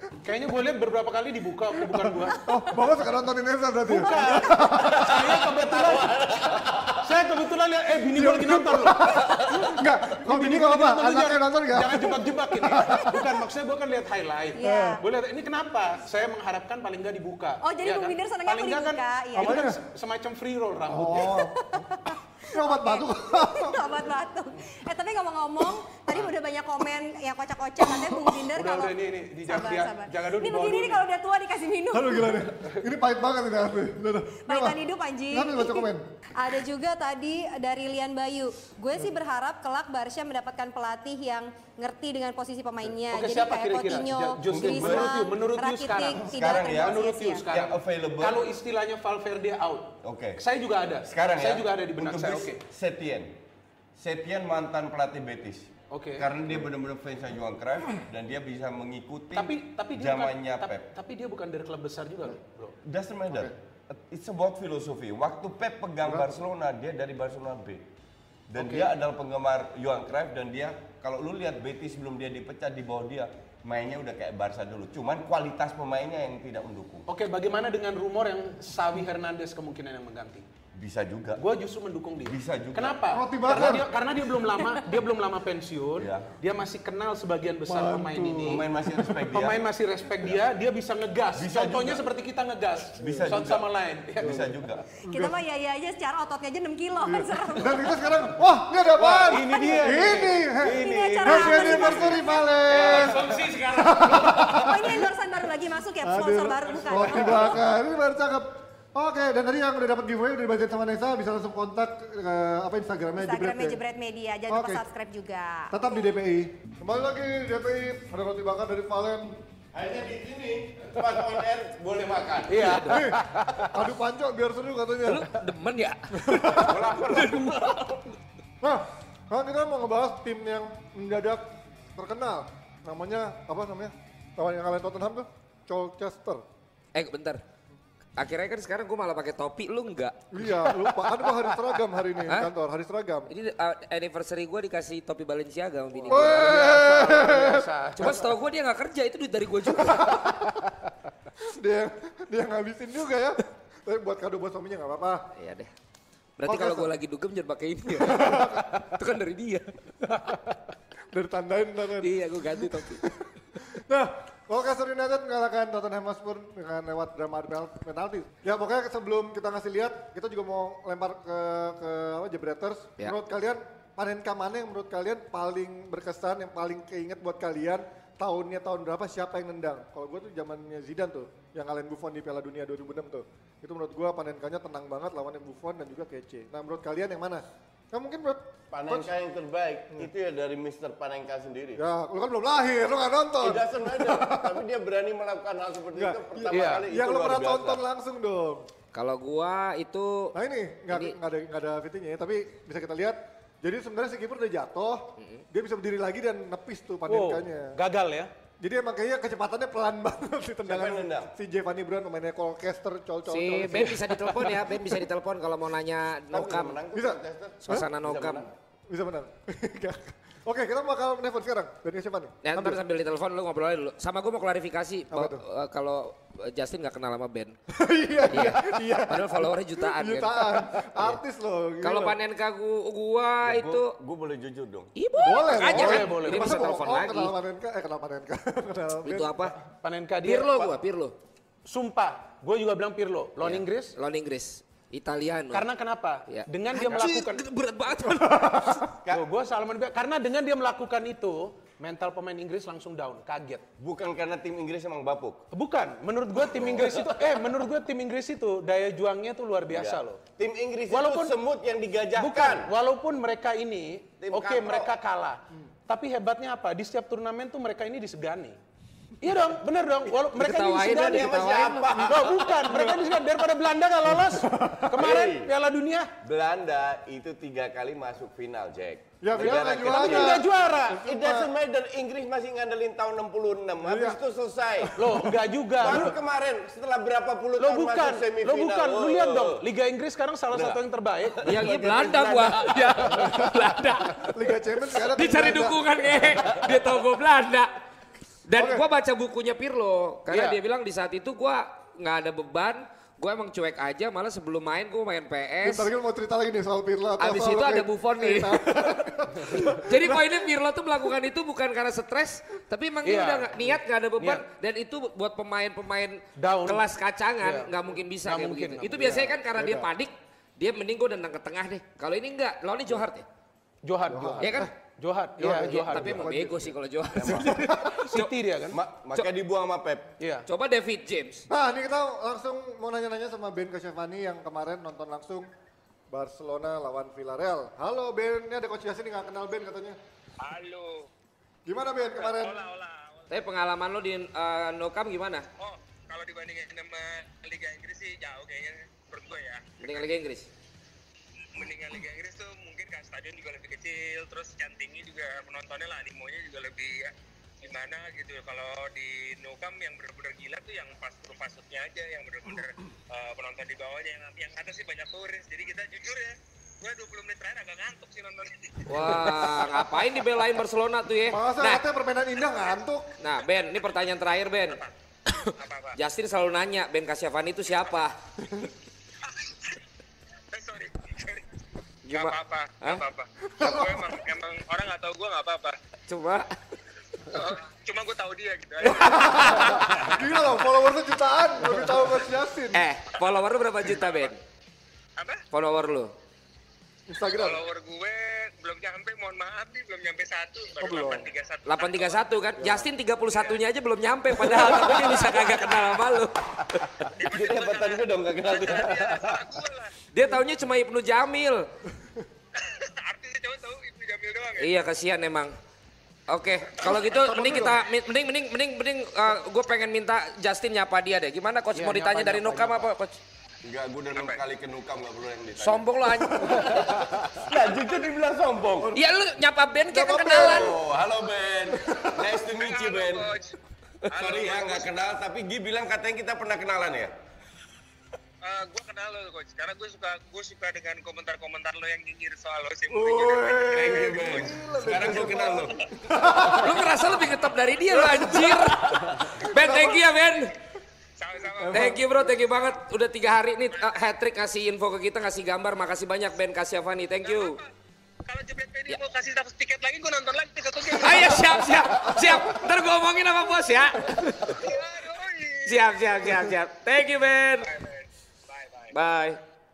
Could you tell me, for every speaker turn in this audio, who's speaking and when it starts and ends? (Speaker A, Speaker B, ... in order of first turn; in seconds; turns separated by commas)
Speaker A: 0.2-2.4, Speaker B: 2.4-5.2, Speaker A: 3.9-21.4, Speaker C: 4.8-7.0, Speaker B: 8.1-13.3, Speaker D: 14.5-15.0, Speaker B: 14.6-15.0, Speaker D: 17.6-19.7, Speaker B: 19.4-19.8, Speaker B: 20.9-21.8, Speaker D: 21.3-32.4, Speaker B: 22.5-24.1, Speaker A: 28.5-31.0, Speaker B: 31.9-36.0, Speaker D: 34.5-47.4, Speaker A: 43.1-52.6, Speaker C: 44.4-45.1, Speaker C: 46.2-48.5, Speaker C: 50.0-50.4, Speaker C: 51.0-53.4, Speaker C: 54.0-60.9, Speaker A: 55.9-56.3, Speaker A: 59.3-62.8, Speaker C: 62.8-67.8, Speaker B: 66.0-66.3, Speaker C: 68.5-77.1, Speaker A: 68.6-68.9, Speaker A: 77.1-80.5, Speaker C: 80.7-81.4, Speaker A: 81.4-88.7, Speaker C: 82.2-83.8, Speaker B: 83.1-83.9, Speaker C: 86.0-86.3, Speaker B: 87.6-89.1, Speaker C: 88.4-89.6, Speaker A: 89.3-94.5, Speaker C: 91.3-92.0, Speaker C: 93.0-94.8, Speaker B: 93.0-93.4, Speaker B: 94.2-94.5, Speaker B: 95.0-95.4, Speaker D: 95.0-98.0, Speaker B: 97.0-105.1, Speaker A: 99.0-104.6, Speaker D: 99.3-103.1, Speaker D: 104.4-107.6, Speaker B: 106.0-113.8, Speaker A: 106.7-107.6, Speaker D: 113.2-115.9, Speaker B: 114.5-114.8, Speaker B: 115.7-119.4, Speaker C: 119.7-122.7, Speaker A: 122.5-123.7, Speaker E: 122.6-123.1, Speaker B: 122.8-125.3, Speaker E: 125.0-128.0, Speaker B: 126.1-126.8, Speaker C: 126.6-127.5, Speaker A: 126.9-127.3, Speaker B: 128.6-131.4, Speaker B: 131.9-136.4, Speaker E: 136.9-137.4, Speaker E: 138.2-140.8, Speaker B: 140.3-143.3, Speaker E: 142.2-142.5, Speaker E: 143.3-146.8, Speaker A: 146.0-148.2, Speaker B: 146.1-148.2, Speaker E: 148.0-150.4, Speaker B: 149.7-150.5, Speaker B: 151.4-155.3, Speaker E: 155.3-155.7, Speaker E: 156.4-160.4, Speaker B: 156.5-156.9, Speaker B: 157.9-158.8, Speaker B: 161.1-189.1, Speaker E: 162.0-163.1, Speaker C: 188.7-191.8, Speaker B: 191.8-194.6, Speaker C: 193.4-197.8, Speaker B: 195.9-198.7, Speaker A: 196.5-196.8, Speaker E: 198.9-200.3, Speaker B: 200.3-207.8, Speaker A: 207.1-208.3, Speaker B: 208.6-215.0, Speaker C: 210.6-211.3, Speaker E: 213.3-216.8, Speaker C: 216.3-218.5, Speaker B: 216.9-217.9, Speaker E: 217.6-218.5, Speaker B: 218.9-222.8, Speaker E: 222.4-227.6, Speaker B: 225.1-225.4, Speaker B: 227.7-232.2, Speaker E: 228.3-231.1, Speaker E: 231.8-233.9, Speaker C: 233.4-234.9, Speaker E: 234.9-237.3, Speaker B: 235.2-239.6, Speaker A: 235.5-236.7, Speaker E: 239.0-239.6, Speaker A: 239.8-240.7, Speaker E: 240.2-241.1, Speaker A: 241.7-243.9, Speaker E: 243.4-245.7, Speaker A: 245.5-247.4, Speaker E: 246.3-248.8, Speaker B: 248.2-248.9, Speaker A: 249.1-253.6, Speaker C: 253.8-255.4, Speaker A: 255.5-260.2, Speaker C: 256.4-257.4, Speaker C: 259.7-262.7, Speaker A: 260.9-261.4, Speaker A: 262.1-268.6, Speaker C: 264.2-264.9, Speaker A: 269.2-271.4, Speaker E: 270.3-272.1, Speaker C: 270.9-272.9, Speaker A: 271.9-276.1, Speaker B: 274.1-275.0, Speaker C: 274.9-275.5, Speaker C: 276.2-285.0, Speaker B: 279.2-281.5, Speaker A: 279.4-281.0, Speaker B: 283.8-284.2, Speaker A: 284.9-286.1, Speaker C: 285.8-289.6, Speaker A: 287.6-291.7, Speaker C: 290.5-290.8, Speaker C: 291.4-293.5, Speaker E: 291.4-294.4, Speaker B: 294.3-295.8, Speaker E: 294.9-297.7, Speaker E: 298.5-305.9, Speaker B: 298.6-298.8, Speaker A: 300.3-300.6, Speaker B: 305.6-310.4, Speaker E: 307.2-323.2, Speaker A: 313.0-314.4, Speaker A: 316.4-316.9, Speaker A: 317.4-319.2, Speaker B: 319.0-319.9, Speaker A: 323.8-326.3, Speaker B: 324.1-324.7, Speaker E: 324.4-324.7, Speaker B: 325.4-326.7, Speaker E: 325.4-328.3, Speaker C: 327.1-327.6, Speaker B: 327.3-328.0, Speaker A: 328.0-328.8, Speaker C: 328.7-330.1, Speaker A: 330.2-330.5, Speaker E: 330.5-331.4, Speaker B: 331.5-335.5, Speaker B: 336.1-340.0, Speaker F: 340.4-341.1, Speaker B: 341.7-342.6, Speaker F: 342.1-343.3, Speaker E: 343.3-345.4, Speaker F: 345.6-350.0, Speaker E: 349.8-350.5, Speaker F: 351.5-369.5, Speaker E: 368.9-371.8, Speaker B: 371.2-373.2, Speaker E: 373.2-374.8, Speaker F: 374.7-376.0, Speaker E: 375.3-378.6, Speaker F: 379.2-379.8, Speaker F: 380.5-381.4, Speaker E: 382.1-383.0, Speaker F: 382.1-385.8, Speaker B: 383.6-384.0, Speaker E: 386.1-386.5, Speaker F: 387.3-389.9, Speaker B: 388.9-392.8, Speaker E: 389.1-389.7, Speaker E: 392.7-394.4, Speaker F: 393.8-394.3, Speaker F: 395.2-395.4, Speaker E: 395.5-396.1, Speaker B: 397.1-397.6, Speaker F: 397.2-402.3, Speaker B: 400.8-401.3, Speaker E: 401.6-407.1, Speaker B: 402.6-402.9, Speaker F: 403.3-403.6, Speaker F: 405.1-405.8, Speaker F: 407.1-409.9, Speaker C: 407.2-409.5, Speaker E: 410.1-411.7, Speaker F: 412.6-414.7, Speaker E: 414.6-415.5, Speaker E: 416.3-423.2, Speaker F: 416.8-417.1, Speaker B: 416.9-417.7, Speaker A: 421.7-422.9, Speaker C: 423.6-428.9, Speaker F: 424.1-424.4, Speaker E: 425.6-427.4, Speaker B: 426.4-426.7, Speaker E: 428.9-430.8, Speaker B: 429.9-430.8, Speaker C: 430.3-433.3, Speaker B: 431.7-432.3, Speaker F: 432.5-433.6, Speaker F: 434.1-434.9, Speaker C: 434.1-437.1, Speaker F: 438.4-445.7, Speaker B: 442.9-447.1, Speaker C: 443.5-445.8, Speaker E: 446.4-450.5, Speaker B: 447.9-450.0, Speaker C: 448.5-449.2, Speaker F: 451.2-452.8, Speaker B: 451.6-452.0, Speaker E: 451.7-457.6, Speaker F: 453.7-454.0, Speaker F: 457.2-457.7, Speaker F: 458.2-461.8, Speaker E: 460.9-464.6, Speaker B: 462.1-462.5, Speaker F: 464.5-466.5, Speaker E: 465.7-467.7, Speaker F: 467.6-468.9, Speaker E: 468.9-469.4